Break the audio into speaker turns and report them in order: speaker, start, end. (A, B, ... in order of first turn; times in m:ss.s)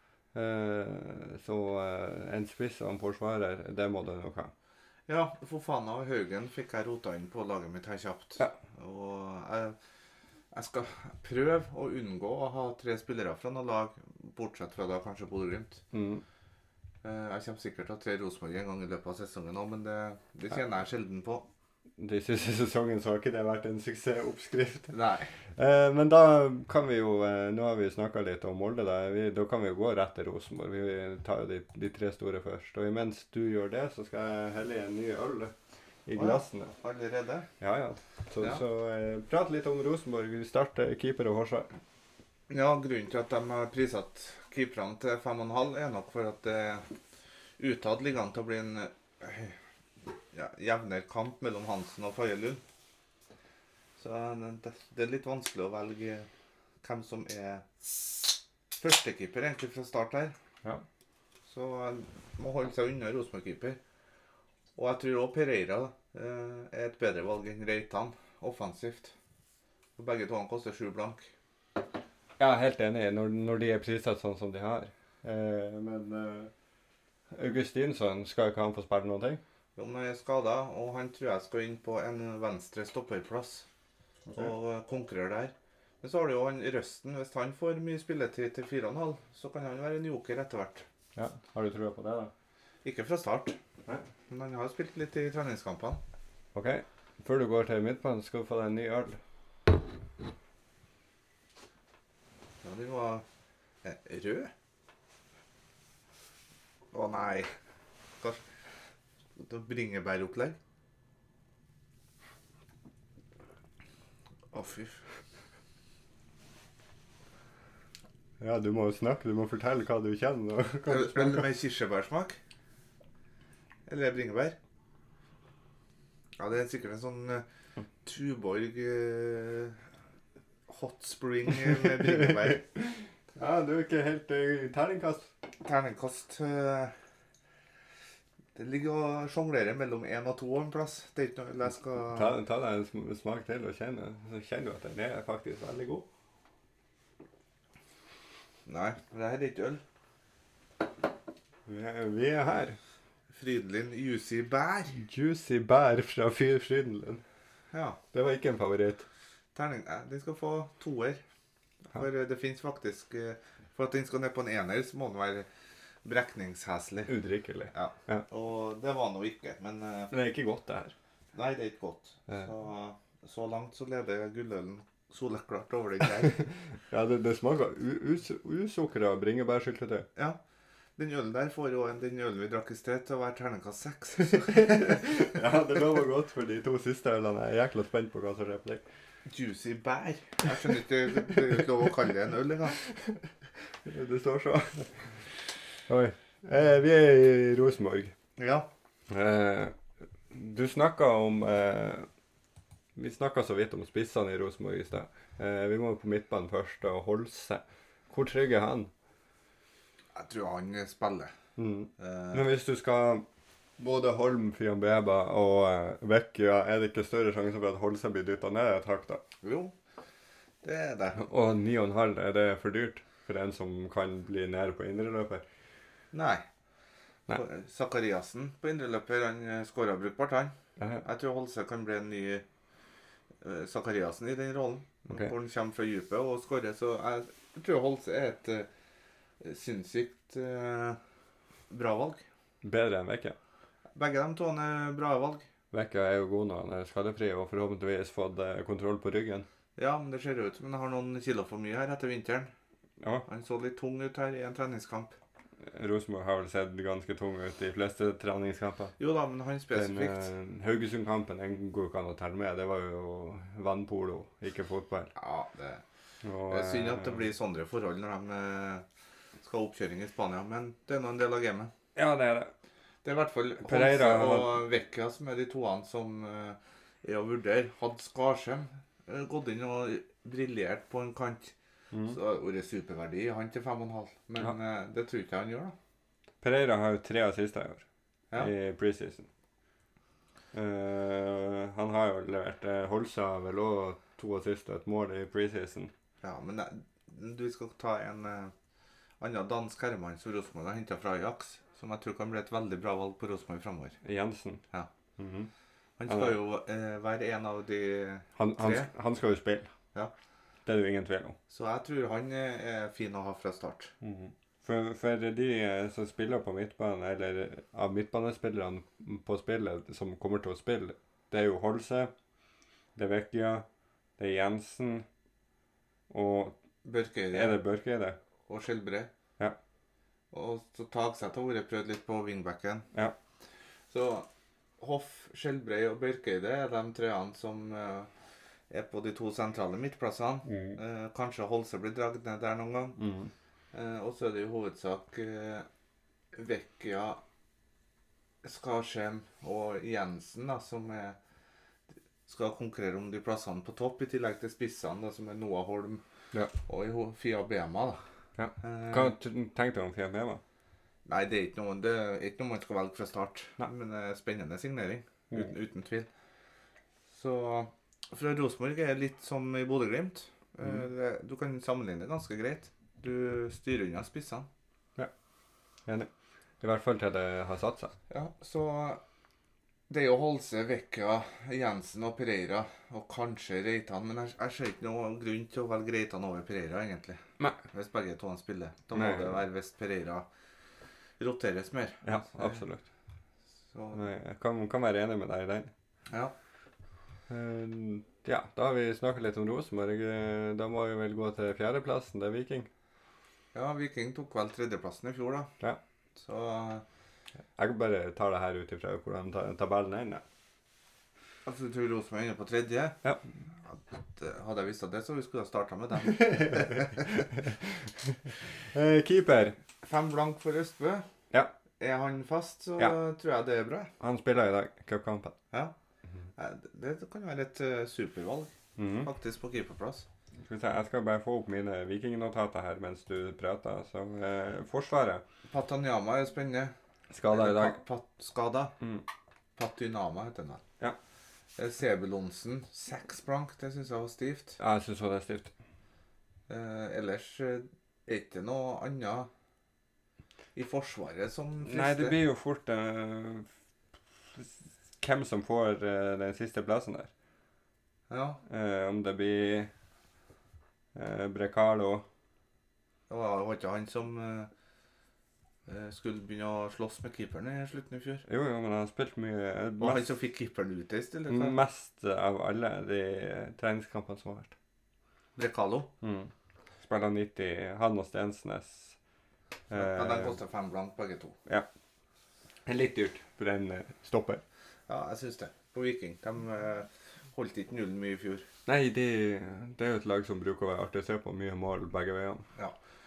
0:00.3-0:04.5 A
0:05.1-0:09.8 B
0:10.5-0:15.8 B
0:15.9-0:16.2 A
0:17.0-0:21.5 B
0:22.0-0:24.9 A
0:24.9-0:25.3 B
0:25.6-0:35.5 A
0:36.0-0:36.7 A
0:36.2-0:37.5 B
0:37.6-0:41.7 A
0:42.5-0:46.8 B
0:47.6-0:49.6 B
0:50.3-0:52.6 B
0:54.0-0:56.3 B
0:56.8-0:58.1 B
0:58.8-1:00.4 B
1:01.5-1:03.8 B
1:04.8-1:09.1 B
1:10.0-1:11.3 B
1:12.4-1:16.5 A
1:17.3-1:19.4 A
1:19.8-1:23.7 B
1:24.3-1:24.5 A
1:24.3-1:30.8 B
1:31.1-1:32.3 A
1:32.8-1:33.6 B
1:34.3-1:36.0 B
1:36.5-1:39.2 A
1:42.6-1:43.2 B
1:43.8-1:44.5 B
1:46.9-1:47.5 B
1:49.4-1:50.6 B
1:54.5-1:55.0 B
1:58.4-2:01.5 A
2:00.9-2:02.4 B
2:03.9-2:04.6 B
2:06.4-2:07.4 B
2:08.0-2:09.8 B
2:10.7-2:12.6 B
2:11.5-2:15.3 A
2:15.6-2:16.9 B
2:18.6-2:22.4 B
2:22.1-2:26.1 A
2:28.7-2:29.8 B
2:31.6-2:32.8 A
2:33.3-2:35.0 B
2:34.9-2:37.2 A
2:37.7-2:38.0 B
2:38.1-2:39.0 A
2:39.5-2:41.2 B
2:41.9-2:45.5 B
2:46.0-2:47.1 B
2:47.1-2:48.2 A
2:47.7-2:50.1 B
2:50.1-2:50.9 A
2:51.3-2:56.5 B
2:56.9-3:00.1 A
3:01.0-3:05.2 B
3:04.3-3:08.8 A
3:09.2-3:12.8 B
3:13.8-3:15.2 A
3:15.9-3:18.1 A
3:18.4-3:18.7 B
3:19.1-3:19.7 A
3:20.3-3:22.1 A
3:23.0-3:28.9 A
3:30.1-3:31.3 B
3:31.6-3:33.2 A
3:32.0-3:32.5 B
3:33.8-3:39.2 A
3:39.4-3:39.7 B
3:40.6-3:41.2 B
3:41.2-3:45.4 A
3:46.1-3:46.4 B
3:47.3-3:52.4 B
3:50.8-3:51.0 A
3:53.4-3:58.7 B
3:59.4-4:01.0 B
4:01.7-4:02.2 B
4:02.6-4:03.4 A
4:03.9-4:05.4 B
4:05.7-4:09.4 A
4:09.8-4:12.5 B
4:13.0-4:13.2 A
4:13.2-4:15.1 B
4:15.6-4:18.9 A
4:19.0-4:20.3 B
4:19.7-4:25.1 A
4:25.1-4:25.8 B
4:26.2-4:27.2 A
4:26.5-4:28.8 B
4:29.4-4:31.7 B
4:31.9-4:32.5 A
4:33.0-4:41.5 B
4:33.6-4:34.6 A
4:41.9-4:42.2 A
4:42.1-4:45.7 B
4:46.4-4:47.8 A
4:48.4-4:49.3 A
4:50.5-4:55.9 A
4:56.2-4:58.5 B
4:59.2-5:04.0 B
5:04.0-5:04.6 A
5:05.2-5:05.5 A
5:06.0-5:08.9 B
5:06.1-5:06.4 A
5:08.4-5:09.7 A
5:10.6-5:11.4 A
5:11.5-5:13.9 B
5:14.0-5:22.1 A
5:23.0-5:23.6 A
5:24.2-5:25.0 A
5:26.1-5:26.6 A
5:26.8-5:27.6 B
5:27.3-5:28.2 A
5:28.5-5:29.1 B
5:30.3-5:32.9 B
5:33.9-5:34.3 B
5:34.8-5:38.1 B
5:38.7-5:43.0 B
5:40.5-5:40.8 A
5:43.0-5:43.3 A
5:43.7-5:45.6 B
5:46.3-5:47.2 B
5:48.4-5:51.2 B
5:52.3-5:56.0 B
5:56.6-5:58.0 B
5:58.4-6:00.4 A
5:58.6-5:59.1 B
6:01.0-6:06.1 B
6:07.1-6:14.5 B
6:16.6-6:17.9 A
6:18.1-6:19.0 B
6:19.9-6:30.2 B
6:28.9-6:29.4 A
6:31.2-6:32.6 B
6:32.0-6:32.8 A
6:33.7-6:34.1 B
6:33.9-6:35.7 A
6:37.3-6:42.7 A
6:43.5-6:45.5 B
6:46.2-6:46.8 B
6:47.6-6:50.2 A
6:51.4-6:53.0 B
6:53.6-6:57.2 B
6:56.1-6:59.6 A
6:59.8-7:01.0 B
7:01.8-7:03.9 B
7:04.0-7:05.3 A
7:06.4-7:10.0 B
7:08.8-7:09.1 A
7:10.4-7:15.2 A
7:15.5-7:16.7 B
7:17.1-7:17.8 A
7:17.2-7:18.7 B
7:18.8-7:19.0 A
7:19.6-7:20.6 B
7:21.6-7:24.6 B
7:24.6-7:25.5 A
7:26.5-7:29.3 B
7:30.5-7:32.2 B
7:31.6-7:33.5 A
7:34.3-7:37.1 A
7:38.1-7:38.4 B
7:38.5-7:39.7 A
7:40.9-7:42.0 A
7:43.1-7:44.5 B
7:45.7-7:48.2 B
7:48.3-7:50.1 A
7:49.8-7:51.6 B
7:51.3-7:54.5 A
7:55.4-7:55.9 B
7:56.0-7:59.0 A
7:59.7-8:00.4 A
7:59.7-8:01.4 B
8:02.6-8:04.4 A
8:04.9-8:08.5 B
8:08.6-8:12.4 A